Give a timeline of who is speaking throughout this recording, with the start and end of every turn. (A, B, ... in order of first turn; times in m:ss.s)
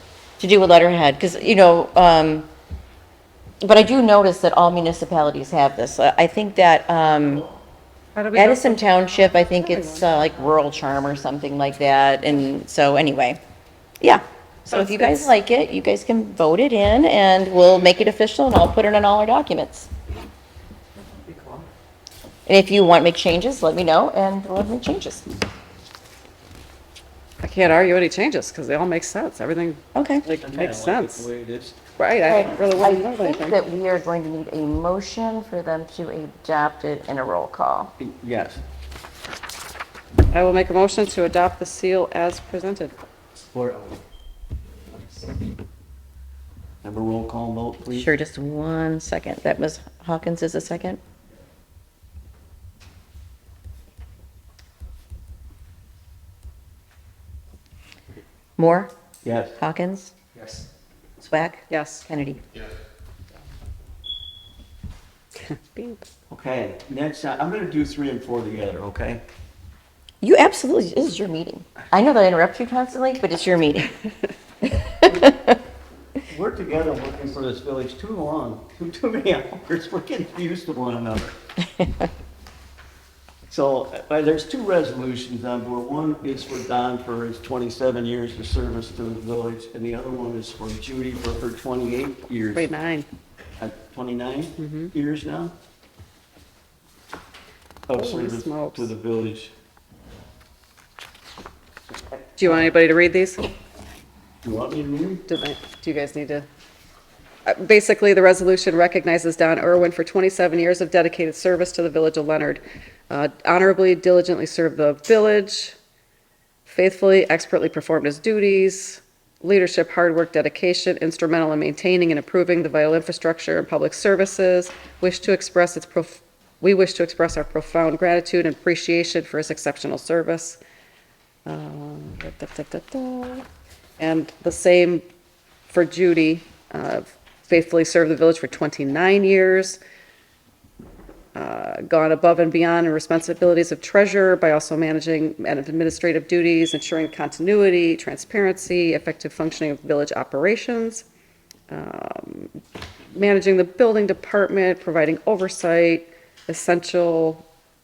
0:00.4-0:02.5 A
0:03.6-0:07.5 A
0:08.1-0:08.8 B
0:08.3-0:13.4 A
0:09.6-0:10.0 B
0:14.0-0:19.9 A
0:14.7-0:15.3 B
0:21.3-0:21.6 C
0:22.5-0:25.3 A
0:27.4-0:31.3 B
0:29.9-0:30.2 A
0:30.4-0:31.7 C
0:32.0-0:33.6 B
0:32.3-0:37.9 A
0:38.0-0:38.6 C
0:40.3-0:42.9 B
0:43.4-0:44.0 C
0:46.8-0:48.1 C
0:47.9-0:51.0 A
0:58.6-0:58.9 A
0:59.2-0:59.6 C
0:59.6-1:00.1 A
1:01.2-1:02.4 A
1:01.7-1:02.1 B
1:05.4-1:06.0 B
1:06.3-1:09.2 C
1:10.2-1:14.0 A
1:14.6-1:15.6 A
1:16.3-1:21.3 C
1:23.5-1:32.7 C
1:32.5-1:33.1 B
1:33.6-1:35.5 C
1:34.6-1:34.9 B
1:37.9-1:39.5 C
1:37.9-1:38.9 B
1:42.4-1:43.4 B
1:44.4-1:45.2 C
1:45.3-1:46.4 B
1:47.4-1:55.8 B
1:56.6-2:10.6 B
2:11.4-2:13.4 B
2:14.0-2:15.0 B
2:15.7-2:19.8 B
2:21.3-2:31.0 B
2:31.7-2:32.6 B
2:33.1-2:37.4 B